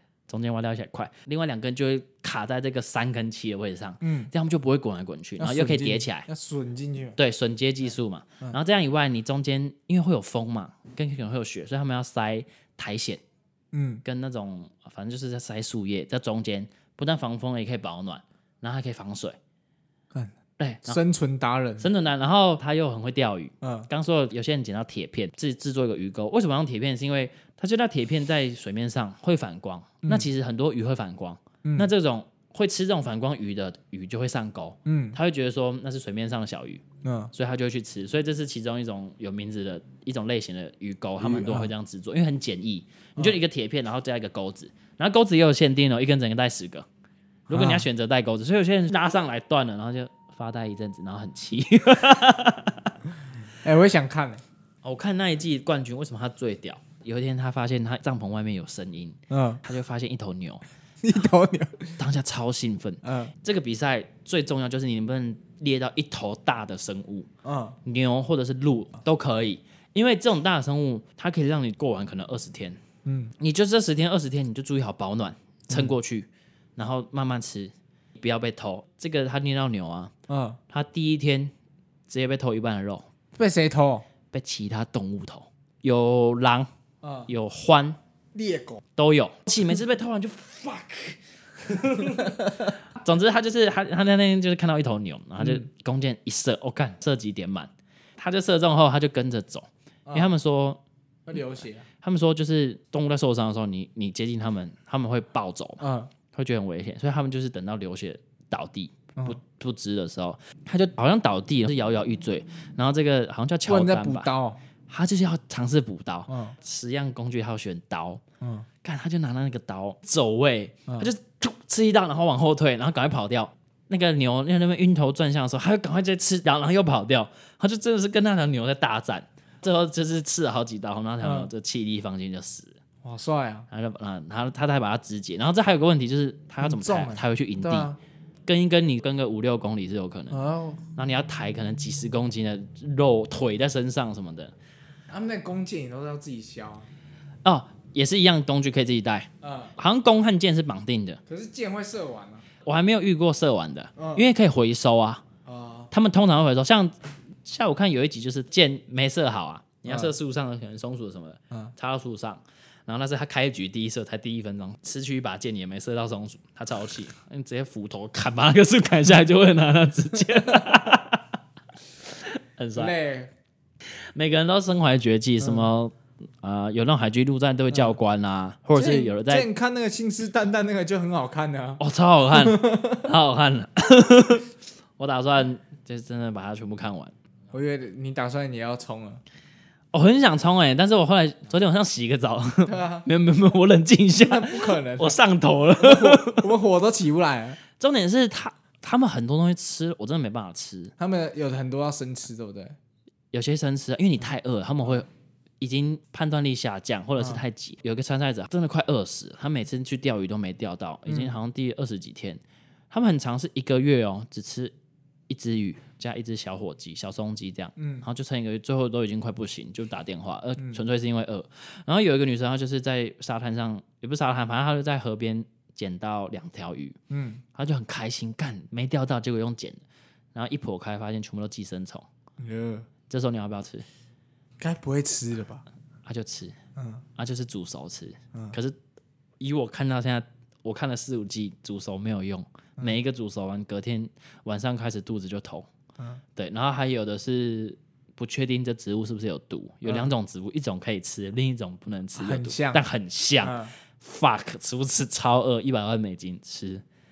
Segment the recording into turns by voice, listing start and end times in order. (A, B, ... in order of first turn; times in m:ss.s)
0:00.3-0:06.3 A
0:04.0-0:04.3 B
0:05.4-0:07.2 B
0:07.2-0:13.2 A
0:13.7-0:14.0 B
0:14.0-0:19.4 A
0:20.6-0:21.0 A
0:20.9-0:21.9 B
0:21.8-0:46.9 A
0:23.6-0:23.9 B
0:31.6-0:31.9 B
0:34.9-0:35.2 B
0:37.0-0:37.3 B
0:41.2-0:41.7 B
0:47.5-0:47.9 B
0:47.5-0:52.9 A
0:53.6-0:54.4 B
0:54.8-1:00.6 A
0:59.3-0:59.6 B
1:01.0-1:01.9 B
1:02.0-1:07.3 A
1:03.0-1:03.3 B
1:07.4-1:07.8 B
1:07.8-1:12.8 A
1:13.0-1:13.3 B
1:13.4-1:20.1 A
1:20.3-1:20.6 B
1:20.7-1:21.5 A
1:22.1-1:23.1 A
1:23.4-1:24.0 B
1:24.3-1:26.7 A
1:27.0-1:27.3 B
1:27.3-1:28.0 A
1:28.3-1:28.8 B
1:29.0-1:40.8 A
1:32.0-1:32.7 B
1:35.4-1:35.7 B
1:40.1-1:40.3 B
1:41.3-1:41.9 B
1:42.0-1:54.3 A
1:45.8-1:46.1 B
1:53.7-1:54.6 B
1:54.9-1:58.2 A
1:56.3-1:56.6 B
1:58.4-1:58.7 B
1:58.8-2:12.7 A
2:11.2-2:11.5 B
2:13.0-2:13.7 B
2:13.7-2:17.9 A
2:16.6-2:18.0 B
2:18.5-2:20.4 A
2:20.3-2:20.8 B
2:21.0-2:24.5 A
2:25.1-2:26.9 B
2:27.4-2:31.2 A
2:29.4-2:29.7 B
2:31.3-2:32.4 B
2:32.6-2:35.2 A
2:34.0-2:34.2 B
2:35.4-2:35.9 B
2:35.9-2:51.3 A
2:39.9-2:40.1 B
2:52.2-2:52.9 A
2:52.8-2:53.3 B
2:54.2-2:59.5 A
2:55.4-2:55.7 B
2:57.7-2:58.0 B
2:58.7-3:01.8 B
3:01.8-3:07.1 A
3:02.3-3:03.1 B
3:07.5-3:09.2 B
3:09.9-3:16.5 A
3:12.7-3:13.1 B
3:14.2-3:15.2 B
3:15.8-3:17.6 B
3:17.8-3:20.9 A
3:21.0-3:22.8 B
3:23.3-3:25.1 A
3:25.6-3:34.7 A
3:31.1-3:31.4 B
3:35.3-3:47.0 A
3:37.8-3:38.0 B
3:47.1-3:47.4 B
3:47.5-3:49.8 A
3:50.3-3:52.1 A
3:52.4-3:52.9 B
3:53.1-3:53.9 A
3:54.6-3:55.6 B
3:56.0-3:56.6 A
3:56.8-3:57.0 B
3:57.2-3:58.8 A
3:59.4-4:05.7 A
4:06.4-4:16.8 A
4:12.2-4:12.8 B
4:13.4-4:13.7 B